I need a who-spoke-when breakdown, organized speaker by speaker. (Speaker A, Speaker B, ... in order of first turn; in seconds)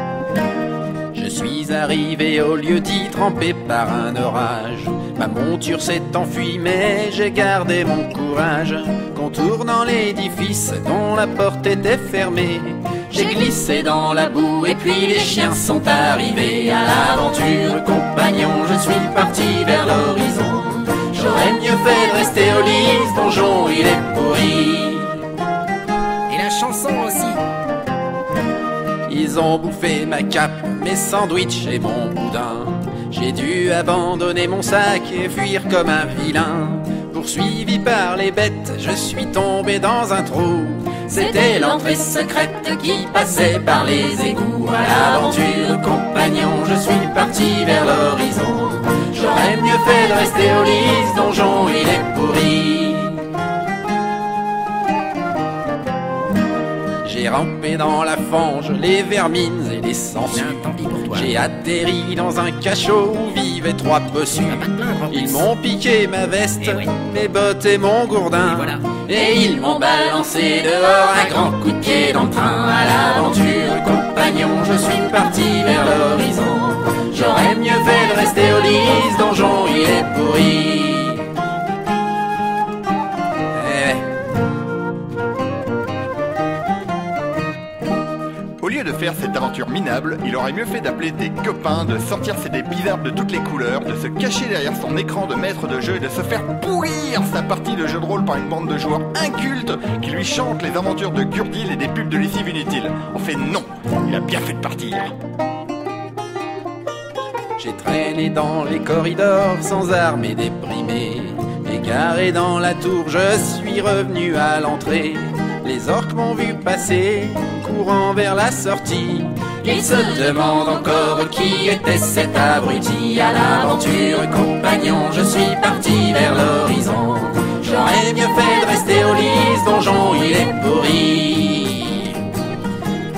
Speaker A: 1.1-25.2, 29.1-53.3, 57.0-81.3, 83.5-84.1, 107.6-132.2
Speaker B: 26.3-27.4, 60.3-61.3, 64.5-65.4
Speaker C: 88.6-105.1